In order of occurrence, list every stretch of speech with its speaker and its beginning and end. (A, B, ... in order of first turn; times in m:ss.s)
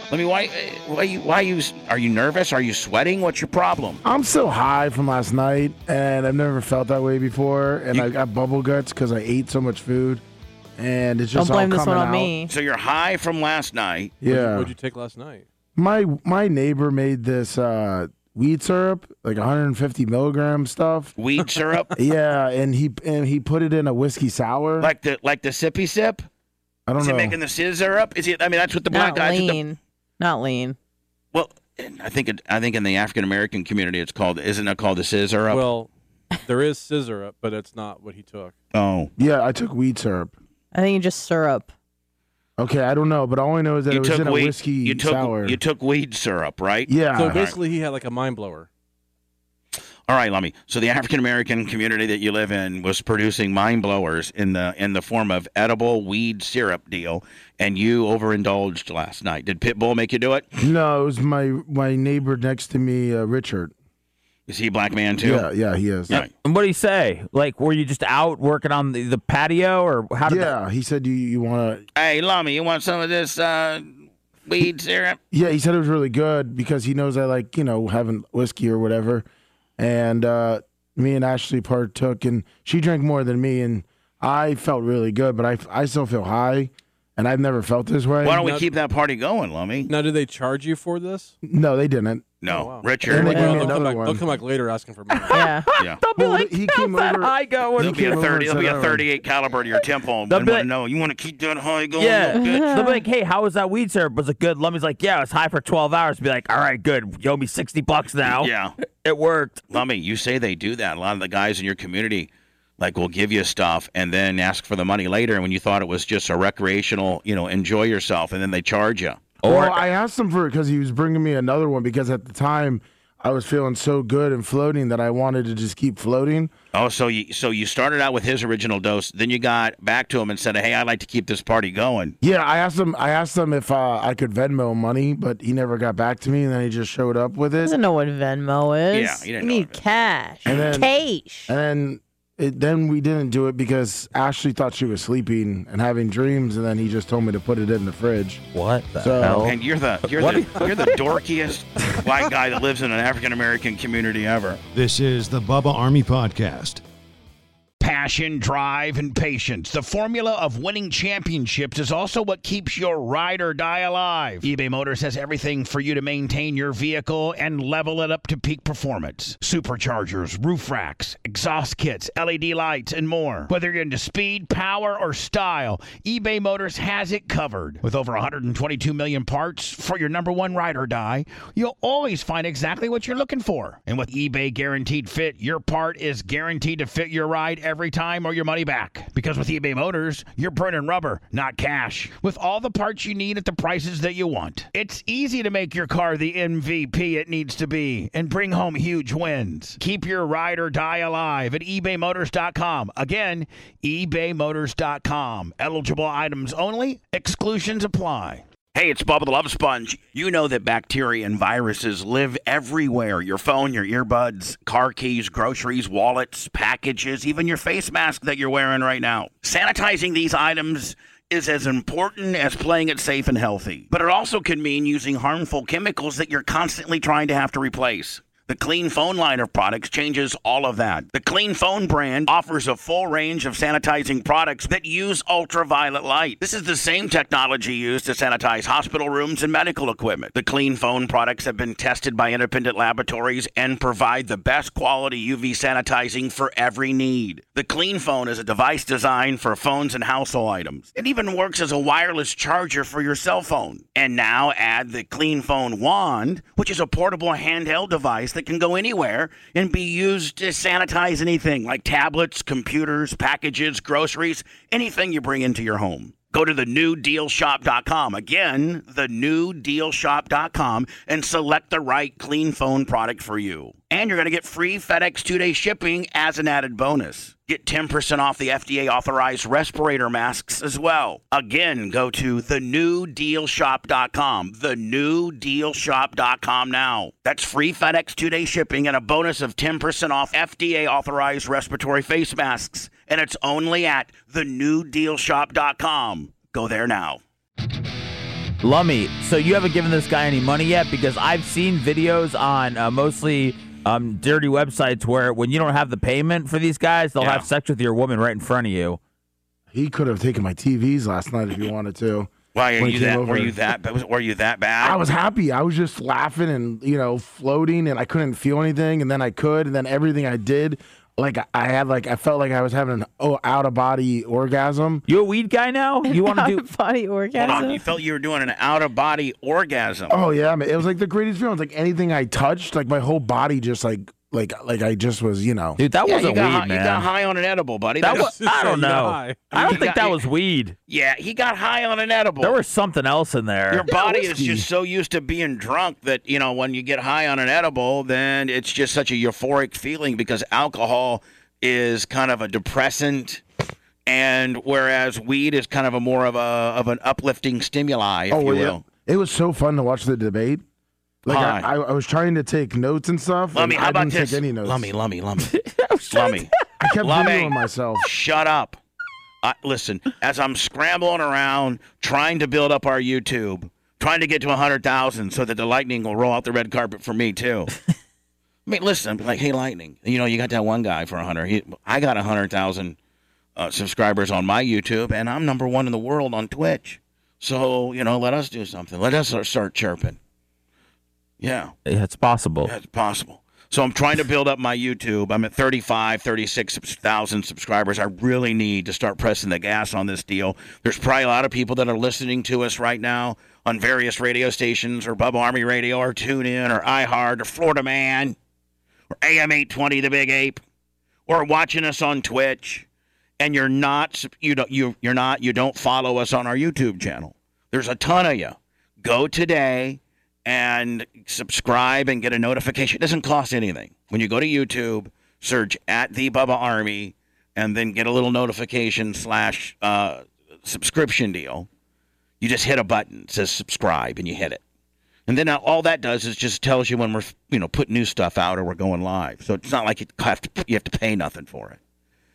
0:00.1-0:04.0 A
0:04.0-0:10.2 B
0:10.8-0:12.3 B
0:11.3-0:12.5 C
0:12.5-0:14.2 A
0:14.2-0:14.7 B
0:14.2-0:15.5 D
0:15.8-0:21.1 B
0:21.2-0:21.9 A
0:22.0-0:24.9 B
0:24.8-0:26.2 A
0:26.9-0:27.4 B
0:27.0-0:29.6 A
0:28.9-0:30.8 C
0:31.3-0:35.6 A
0:35.5-0:35.9 D
0:36.4-0:38.6 D
0:38.7-0:39.1 A
0:39.2-0:40.3 B
0:40.7-0:41.7 C
0:42.6-0:45.6 B
0:43.9-0:47.5 A
0:46.9-0:47.4 B
0:47.1-0:48.7 D
0:50.1-1:00.5 A
1:00.6-1:03.7 B
1:04.5-1:05.4 A
1:05.2-1:06.2 B
1:06.1-1:10.5 E
1:10.2-1:11.8 B
1:12.0-1:13.9 A
1:14.4-1:15.2 A
1:15.3-1:19.2 B
1:19.8-1:28.4 B
1:28.2-1:29.9 A
1:28.4-1:28.7 D
1:29.8-1:31.3 D
1:31.4-1:32.3 B
1:32.4-1:33.7 A
1:32.4-1:35.4 D
1:33.0-1:34.2 B
1:33.2-1:33.5 C
1:35.3-1:38.2 E
1:35.3-1:35.7 C
1:36.1-1:39.0 B
1:37.8-1:42.7 A
1:40.3-1:40.7 E
1:42.0-1:49.6 E
1:42.4-1:43.0 C
1:48.3-1:48.8 A
1:49.7-1:59.4 A
1:59.4-1:59.8 E
1:59.4-2:06.5 B
2:06.7-2:12.2 A
2:12.2-2:17.7 B
2:17.6-2:21.5 C
2:18.9-2:19.8 A
2:20.4-2:20.8 A
2:20.4-2:20.9 B
2:21.4-2:28.4 B
2:28.5-2:29.6 E
2:29.0-2:29.5 B
2:29.4-2:34.6 A
2:30.1-2:31.0 E
2:34.7-2:36.8 F
2:37.8-4:57.2 A
4:58.6-5:09.0 E
5:07.2-5:07.5 A
5:09.7-5:13.6 B
5:12.6-5:15.0 A
5:14.8-5:25.0 B
5:25.1-5:26.6 E
5:26.1-5:27.8 C
5:27.4-5:30.2 A
5:30.1-5:35.8 B
5:35.8-5:37.1 E
5:36.0-5:38.3 A
5:38.0-5:39.9 D
5:38.0-5:40.8 E
5:39.5-5:40.2 A
5:40.9-5:42.6 A
5:42.4-5:43.9 E
5:43.7-5:53.4 A
5:43.9-5:44.7 B
5:54.1-5:58.8 A
5:58.3-6:00.6 B
6:01.2-6:04.9 B
6:01.3-6:01.7 A
6:03.5-6:06.5 A
6:06.8-6:08.1 B
6:07.0-6:08.8 A
6:09.4-6:17.7 A
6:18.7-6:23.0 A
6:23.6-6:30.2 A
6:31.4-6:31.7 A
6:31.9-6:32.7 E
6:32.6-6:48.4 A
6:49.2-6:50.6 A
6:51.3-6:52.9 A
6:53.4-7:11.7 A
7:12.4-7:14.6 A
7:15.3-7:21.8 A